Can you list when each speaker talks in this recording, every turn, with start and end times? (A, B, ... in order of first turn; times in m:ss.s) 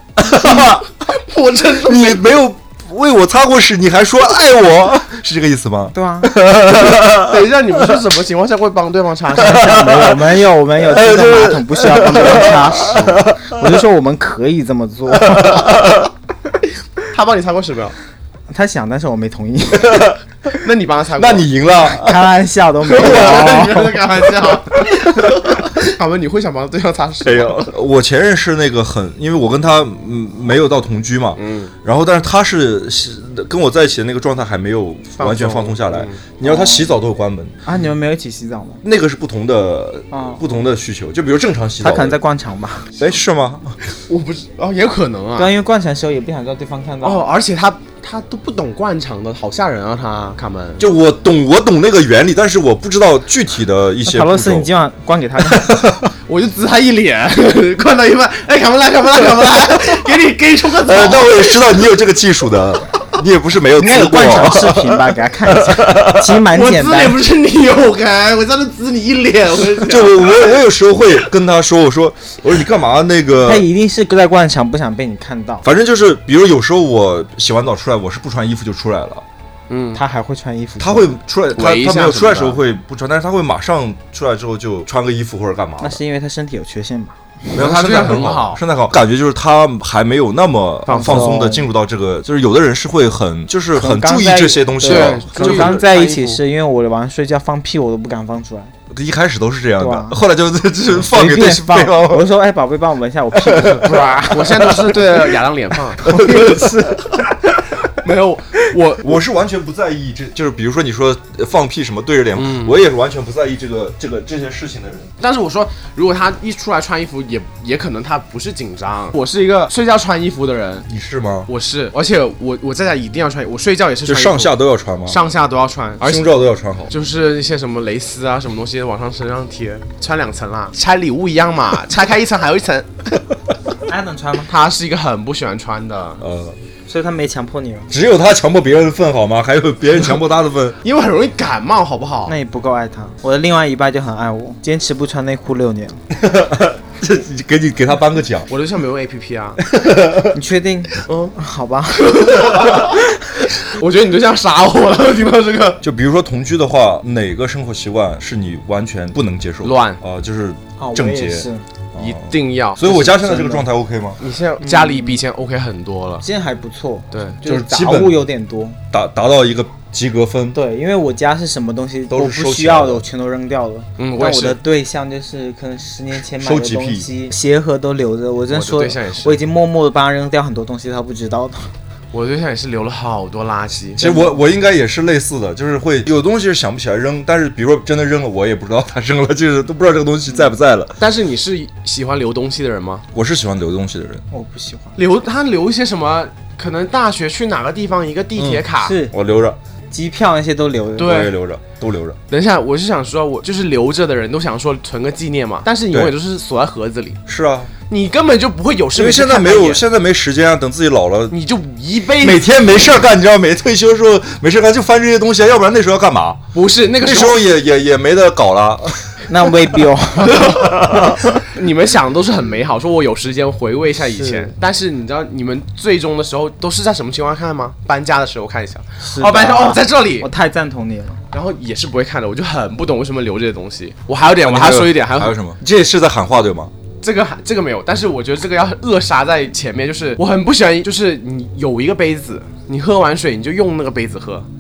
0:00.2-0:00.8 A
0:00.7-0:02.3 B
0:01.8-0:07.4 A
0:05.9-0:06.4 C
0:06.9-0:10.2 B
0:09.4-0:15.8 C
0:10.8-0:13.8 A
0:15.1-0:16.1 A
0:17.1-0:18.0 B
0:18.5-0:20.1 C
0:19.7-0:20.2 A
0:20.6-0:21.5 B
0:21.2-0:22.3 A
0:21.7-0:24.0 C
0:22.9-0:27.7 B
0:22.9-0:23.4 A
0:27.2-0:37.6 A
0:31.4-0:31.7 B
0:35.2-0:36.2 B
0:36.4-0:36.9 C
0:37.6-0:38.8 C
0:38.8-0:42.2 A
0:40.1-0:40.4 C
0:41.8-0:42.9 C
0:43.0-0:43.8 A
0:44.1-0:45.5 B
0:45.4-0:47.3 C
0:47.0-0:50.8 B
0:50.8-0:54.7 A
0:54.0-0:55.8 C
0:55.4-0:56.1 A
0:56.3-1:01.6 B
1:00.8-1:06.4 A
1:03.8-1:07.2 C
1:06.5-1:10.6 B
1:09.7-1:13.7 A
1:13.4-1:15.7 C
1:15.6-1:19.2 A
1:19.7-1:20.0 B
1:19.9-1:21.1 C
1:20.8-1:26.0 A
1:21.6-1:22.6 B
1:25.8-1:27.6 C
1:27.6-1:28.6 B
1:27.6-1:35.8 A
1:30.9-1:31.3 B
1:30.9-1:31.7 C
1:33.8-1:38.7 C
1:34.9-1:36.4 B
1:38.9-1:42.3 A
1:39.8-1:40.2 C
1:41.0-1:45.2 C
1:43.4-1:44.8 A
1:44.0-1:46.5 B
1:46.0-1:47.2 C
1:46.1-1:46.7 A
1:47.9-1:49.2 B
1:49.0-1:55.1 A
1:52.4-1:52.8 B
1:55.2-2:00.9 B
2:00.9-2:01.5 A
2:01.5-2:06.4 B
2:04.0-2:05.2 A
2:06.0-2:06.9 A
2:06.9-2:13.2 B
2:13.9-2:14.5 C
2:14.5-2:16.2 B
2:16.2-2:16.6 A
2:16.9-2:17.9 C
2:17.9-2:20.8 A
2:20.8-2:22.3 B
2:22.3-2:26.0 C
2:26.1-2:28.5 A
2:28.5-2:29.6 B
2:29.7-2:30.4 A
2:30.3-2:32.9 C
2:31.1-2:31.3 B
2:31.9-2:35.8 B
2:35.8-2:44.2 A
2:39.6-2:40.0 B
2:40.8-2:41.6 C
2:42.0-2:43.2 B
2:42.9-2:43.7 C
2:44.2-2:46.2 B
2:44.6-2:45.2 C
2:46.2-2:48.8 C
2:47.1-2:47.4 B
2:47.4-2:48.2 A
2:48.9-2:50.6 A
2:50.5-3:01.7 C
2:52.1-2:53.0 A
2:54.0-2:54.6 B
2:56.4-2:57.1 A
2:58.5-2:59.4 B
3:02.1-3:04.1 B
3:04.0-3:11.0 A
3:04.0-3:04.4 C
3:11.0-3:13.0 B
3:13.1-3:14.2 A
3:14.3-3:15.0 C
3:15.0-3:19.0 B
3:18.4-3:19.6 A
3:18.8-3:19.1 C
3:19.9-3:21.3 C
3:21.0-3:21.4 B
3:21.0-3:22.2 A
3:22.3-3:27.2 B
3:27.3-3:27.7 A
3:27.9-3:29.8 B
3:29.0-3:31.4 A
3:31.3-3:32.5 B
3:32.2-3:36.4 A
3:36.5-3:37.4 B
3:37.0-3:39.2 A
3:39.3-3:40.7 C
3:40.3-3:50.3 B
3:40.5-3:41.2 A
3:44.2-3:44.5 C
3:49.0-3:51.2 C
3:51.3-3:55.4 B
3:54.4-3:56.7 A
3:57.0-4:04.5 B